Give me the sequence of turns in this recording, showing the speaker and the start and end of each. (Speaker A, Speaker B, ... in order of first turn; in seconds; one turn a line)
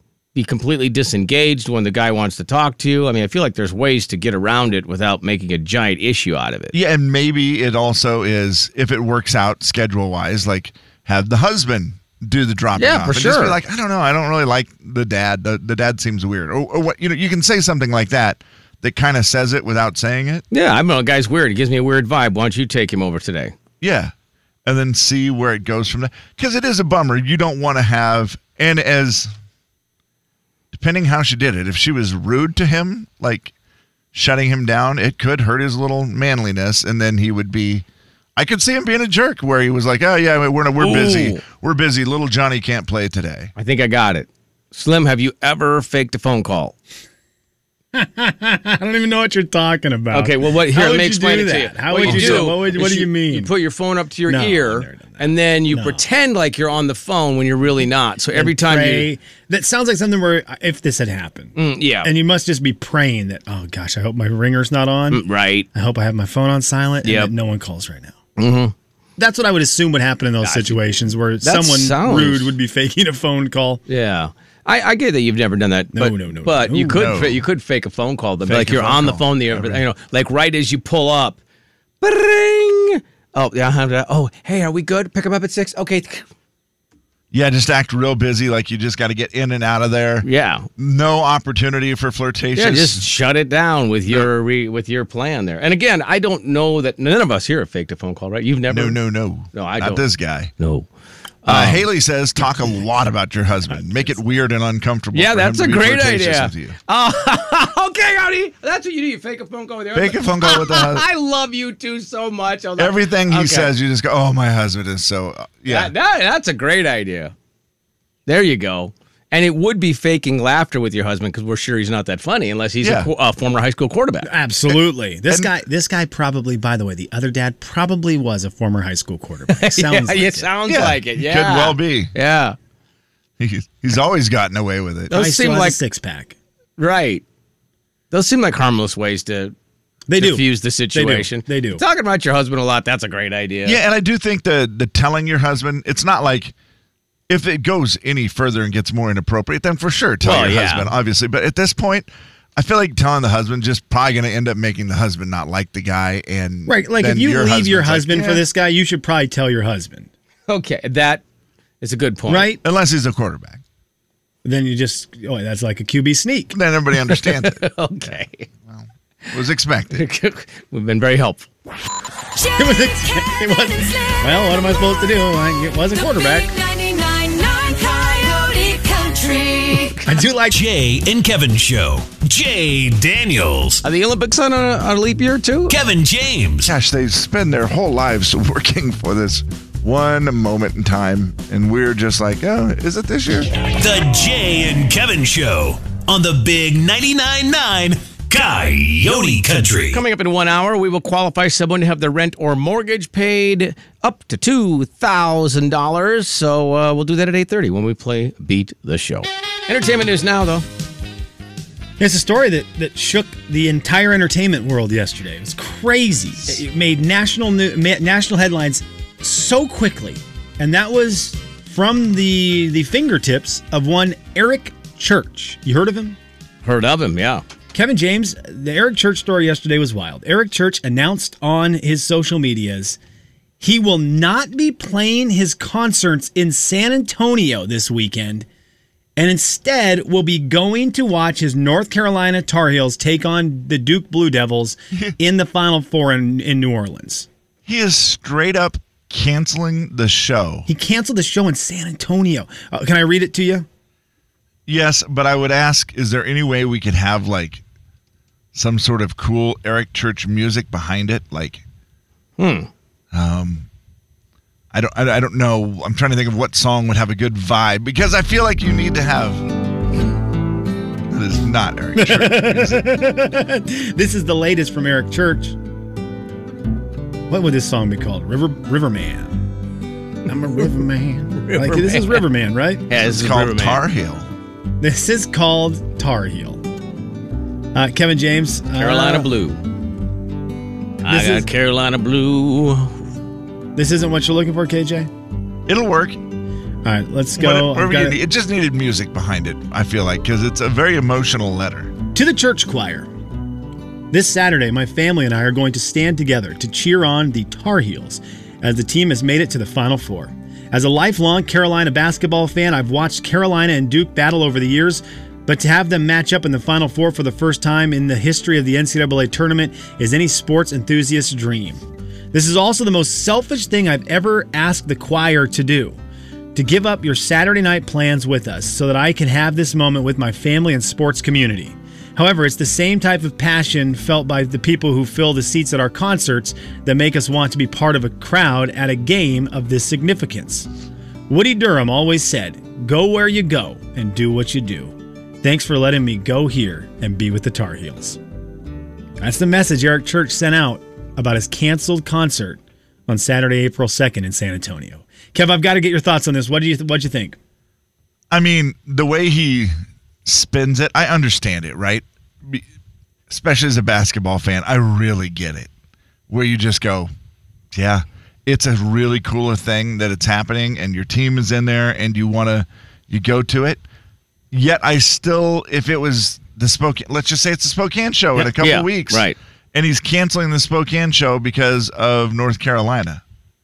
Speaker A: 0.3-6.7
Speaker B: 6.7-20.4
Speaker A: 12.8-13.6
Speaker A: 20.5-23.5
Speaker B: 23.8-24.1
Speaker B: 24.6-29.3
Speaker B: 30.7-33.5
Speaker B: 34.1-37.9
Speaker B: 38.4-43.5
Speaker A: 40.8-41.4
Speaker A: 43.6-46.8
Speaker C: 47.9-53.5
Speaker A: 50.1-59.1
Speaker B: 52.1-52.4
Speaker C: 54.3-56.0
Speaker C: 58.3-68.2
Speaker A: 61.6-62.1
Speaker A: 65.1-65.7
Speaker A: 67.0-67.3
Speaker A: 68.4-68.7
Speaker C: 69.2-73.8
Speaker A: 70.4-70.8
Speaker A: 71.4-72.5
Speaker A: 73.9-81.4
Speaker C: 76.0-77.1
Speaker B: 76.9-77.4
Speaker B: 78.5-79.8
Speaker A: 82.0-86.2
Speaker B: 87.3-93.0
Speaker A: 90.2-90.7
Speaker A: 92.6-99.0
Speaker B: 98.7-100.5
Speaker A: 99.5-100.0
Speaker A: 100.6-100.9
Speaker A: 101.4-101.8
Speaker B: 101.5-106.8
Speaker A: 105.1-113.7
Speaker B: 109.9-111.0
Speaker B: 112.8-115.9
Speaker A: 115.7-117.3
Speaker A: 118.3-124.3
Speaker B: 122.8-123.1
Speaker C: 124.2-130.5
Speaker B: 124.7-125.5
Speaker A: 129.5-132.6
Speaker B: 130.7-132.1
Speaker B: 133.4-135.1
Speaker A: 135.1-135.8
Speaker C: 135.1-136.3
Speaker A: 136.8-137.2
Speaker A: 138.1-139.5
Speaker C: 140.1-141.8
Speaker A: 140.2-143.8
Speaker B: 143.7-146.5
Speaker B: 147.3-158.4
Speaker A: 150.2-150.9
Speaker C: 156.7-160.1
Speaker A: 160.5-161.2
Speaker A: 161.8-162.5
Speaker C: 162.3-162.6
Speaker B: 162.6-163.6
Speaker C: 164.4-166.6
Speaker B: 166.5-167.7
Speaker A: 167.1-168.5
Speaker B: 168.7-170.0
Speaker A: 169.9-171.5
Speaker D: 172.4-172.7
Speaker C: 172.6-176.5
Speaker D: 175.9-180.0
Speaker C: 180.1-180.6
Speaker E: 180.5-183.8
Speaker A: 183.8-185.7
Speaker E: 185.7-186.7
Speaker B: 186.6-193.5
Speaker E: 193.8-200.0
Speaker A: 199.9-210.7
Speaker C: 212.0-226.2
Speaker A: 226.6-227.4
Speaker C: 227.7-233.0
Speaker C: 233.6-238.5
Speaker C: 239.2-247.3
Speaker B: 247.7-250.7
Speaker C: 250.7-253.7
Speaker B: 254.7-257.6
Speaker B: 258.5-261.6
Speaker A: 262.4-262.7
Speaker B: 263.1-263.7
Speaker B: 264.7-269.5
Speaker B: 271.1-273.0
Speaker C: 272.0-275.6
Speaker C: 277.3-279.4
Speaker C: 280.3-282.9
Speaker A: 281.4-282.3
Speaker A: 282.9-283.8
Speaker B: 282.9-284.3
Speaker C: 284.8-286.6
Speaker C: 287.7-289.3
Speaker A: 288.8-289.6
Speaker A: 291.0-293.0
Speaker C: 291.1-291.5
Speaker C: 293.8-295.1
Speaker B: 295.7-296.2
Speaker C: 296.8-298.2
Speaker B: 297.4-301.9
Speaker C: 302.1-303.1
Speaker C: 304.1-326.0
Speaker C: 326.6-340.7
Speaker C: 341.3-348.2
Speaker C: 349.2-357.4
Speaker B: 358.3-359.7
Speaker B: 360.2-362.6
Speaker B: 363.3-365.7
Speaker B: 366.3-367.1
Speaker B: 367.7-373.8
Speaker B: 374.5-383.2
Speaker A: 378.4-379.4